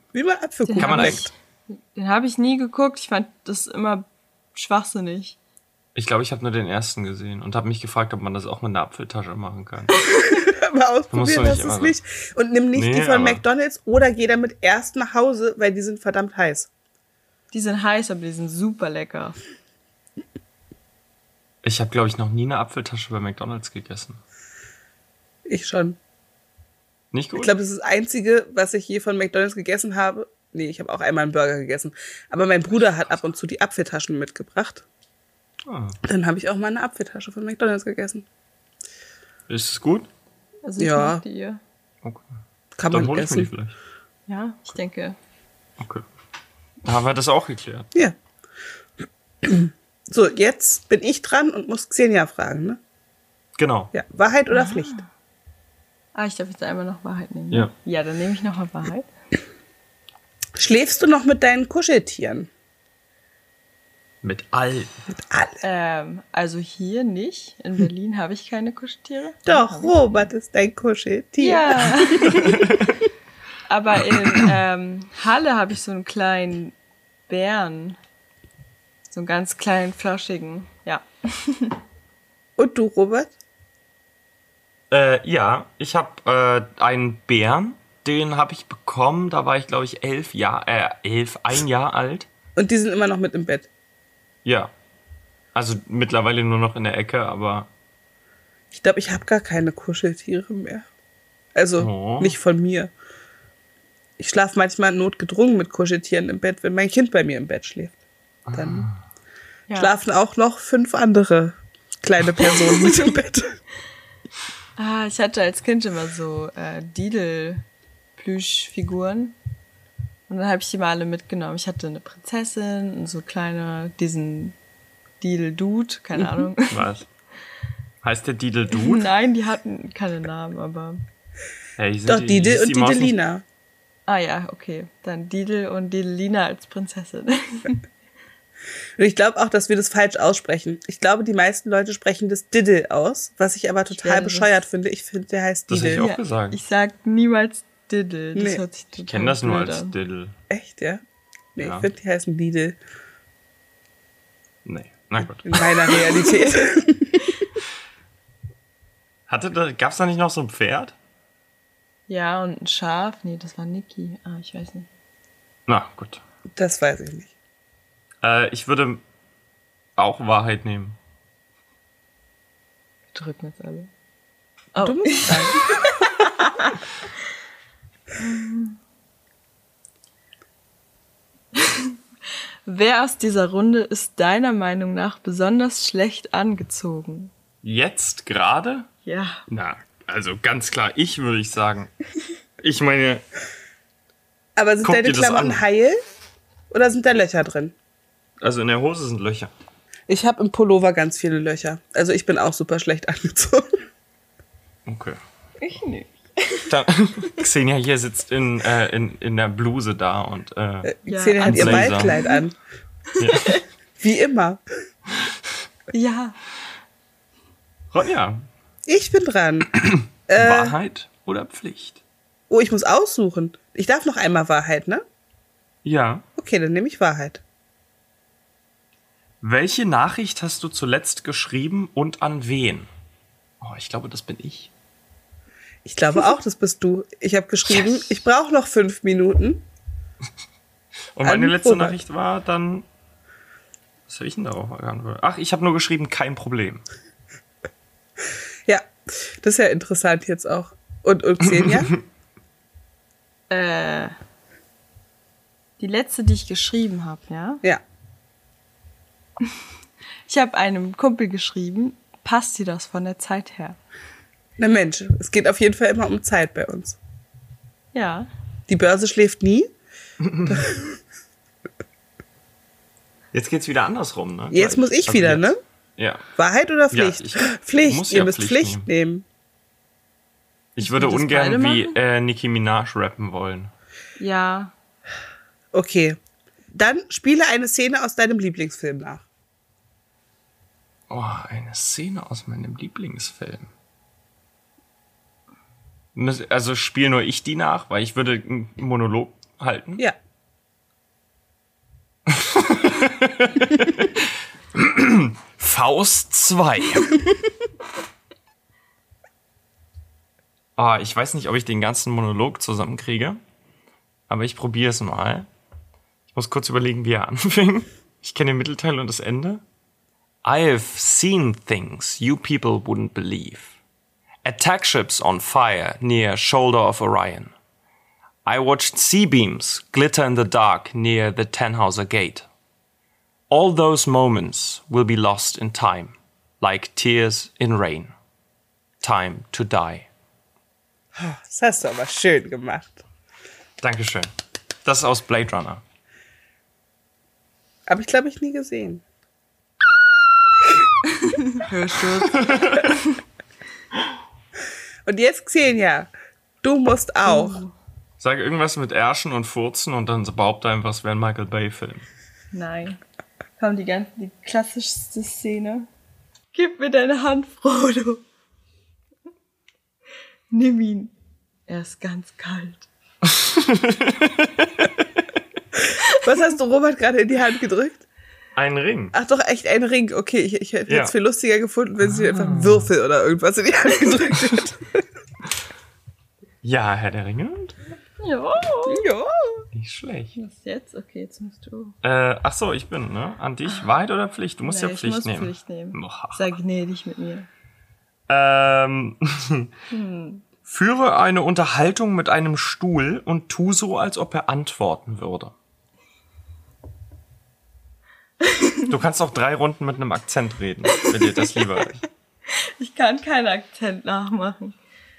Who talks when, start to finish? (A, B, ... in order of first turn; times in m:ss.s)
0:00.1-0:01.3 A
0:00.7-0:01.3 B
0:00.8-0:01.2 C
0:01.9-0:05.4 B
0:05.9-0:09.9 C
0:09.9-0:10.4 B
0:10.3-0:16.7 A
0:11.1-0:12.0 C
0:12.7-0:13.4 C
0:17.5-0:19.4 B
0:21.6-0:24.2 C
0:25.4-0:26.0 A
0:27.1-0:27.5 C
0:27.4-0:34.8 A
0:35.6-0:36.0 C
0:36.0-0:38.2 A
0:39.5-0:40.1 C
0:40.6-0:41.6 B
0:40.8-0:41.2 A
0:42.8-0:43.5 A
0:42.9-0:43.7 C
0:44.3-0:45.2 B
0:45.8-0:46.0 C
0:46.8-0:47.9 C
0:49.4-0:52.8 A
0:53.6-0:53.9 C
0:53.9-0:55.0 A
0:54.5-0:55.0 B
0:56.1-0:59.1 B
1:00.6-1:02.5 A
1:04.2-1:04.9 C
1:05.1-1:05.6 A
1:05.6-1:10.0 B
1:09.4-1:12.7 A
1:11.4-1:12.8 B
1:12.6-1:12.9 C
1:13.7-1:16.7 B
1:17.3-1:18.0 B
1:19.1-1:21.8 B
1:22.6-1:23.3 A
1:24.9-1:32.3 C
1:32.6-1:33.7 A
1:34.4-1:34.7 C
1:35.5-1:37.7 C
1:38.7-1:40.8 A
1:41.5-1:42.9 A
1:41.8-1:42.4 C
1:44.2-1:47.9 A
1:48.5-1:49.0 C
1:48.5-1:48.9 A
1:49.8-1:53.6 A
1:52.5-1:53.1 B
1:54.8-1:57.6 B
1:58.2-1:59.4 B
2:00.3-2:04.6 B
2:05.2-2:06.8 B
2:06.7-2:07.1 C
2:08.0-2:09.1 C
2:08.7-2:11.0 B
2:11.8-2:13.2 C
2:12.0-2:13.4 A
2:14.1-2:17.8 B
2:19.0-2:26.0 A
2:23.9-2:24.5 B
2:25.7-2:26.6 C
2:25.9-2:29.9 B
2:28.4-2:28.6 A
2:29.0-2:30.3 C
2:30.5-2:31.0 A
2:31.6-2:32.8 A
2:31.6-2:31.9 C
2:34.6-2:36.1 C
2:35.4-2:37.3 A
2:39.3-2:41.0 C
2:42.1-2:44.9 B
2:45.7-2:46.2 C
2:46.6-2:47.3 A
2:48.2-2:49.0 C
2:50.0-2:51.0 C
2:53.1-2:53.9 B
2:54.7-2:56.8 B
2:54.8-2:56.3 A
2:58.2-2:58.8 B
3:01.5-3:02.0 B
3:02.6-3:07.3 B
3:07.6-3:08.9 C
3:09.0-3:09.4 B
3:09.5-3:11.9 C
3:12.6-3:13.2 C
3:14.6-3:16.0 A
3:14.8-3:15.6 C
3:16.7-3:17.8 A
3:18.4-3:19.5 C
3:20.1-3:23.7 A
3:24.8-3:25.2 C
3:25.6-3:26.8 B
3:26.7-3:32.2 C
3:30.8-3:32.5 A
3:31.1-3:32.4 B
3:33.2-3:33.6 B
3:33.2-3:33.6 C
3:34.0-3:34.6 A
3:35.9-3:36.4 B
3:37.9-3:38.4 C
3:38.9-3:40.7 A
3:39.8-3:42.0 C
3:42.5-3:45.0 A
3:45.8-3:46.2 C
3:46.4-3:47.4 A
3:49.4-3:52.9 C
3:53.6-3:54.7 C
3:55.8-3:59.6 A
4:01.1-4:02.8 C
4:01.2-4:02.0 A
4:04.1-4:06.8 C
4:08.7-4:11.9 A
4:11.6-4:12.0 C
4:13.5-4:14.1 B
4:15.8-4:17.6 B
4:20.3-4:23.8 B
4:24.6-4:27.0 A
4:27.9-4:28.3 B
4:28.7-4:29.7 A
4:30.2-4:30.6 C
4:30.4-4:31.0 A
4:33.3-4:36.2 C
4:34.5-4:35.6 A
4:36.4-4:39.2 A
4:36.9-4:38.9 C
4:40.8-4:43.7 C
4:40.8-4:42.0 B
4:44.2-4:44.7 B
4:45.7-4:46.2 A
4:46.7-4:49.2 A
4:51.1-4:53.7 C
4:56.1-5:00.0 C
5:02.2-5:07.2 C
5:10.8-5:13.4 C
5:14.3-5:15.5 C
5:16.3-5:19.6 C
5:20.4-5:23.8 C
5:24.4-5:27.5 C
5:28.4-5:32.4 C
5:33.5-5:38.1 C
5:39.0-5:40.1 C
5:41.1-5:43.0 A
5:43.8-5:44.3 C
5:44.8-5:45.8 C
5:47.9-5:49.0 A
5:51.5-5:53.2 B
5:52.1-5:52.9 C
5:55.0-5:56.1 A
5:56.6-5:57.6 A
5:57.2-5:57.7 B
5:58.2-6:02.1 C
6:02.5-6:03.0 B
6:03.6-6:05.9 B
6:06.5-6:08.2 B
6:10.5-6:11.1 B
6:11.7-6:12.9 B
6:13.2-6:15.2 C
6:16.1-6:18.0 A
6:18.5-6:19.1 C
6:19.1-6:24.8 A
6:20.9-6:21.1 C
6:22.0-6:22.9 C
6:26.6-6:27.8 C
6:28.2-6:29.0 B
6:28.9-6:29.6 A
6:29.7-6:30.4 C
6:30.4-6:32.0 B
6:32.0-6:36.5 C
6:34.6-6:37.5 B
6:38.3-6:39.7 C
6:39.9-6:40.4 B
6:40.6-6:45.5 C
6:48.4-6:48.9 B
6:48.9-6:52.0 C
6:51.0-6:51.7 B
6:52.5-6:54.8 B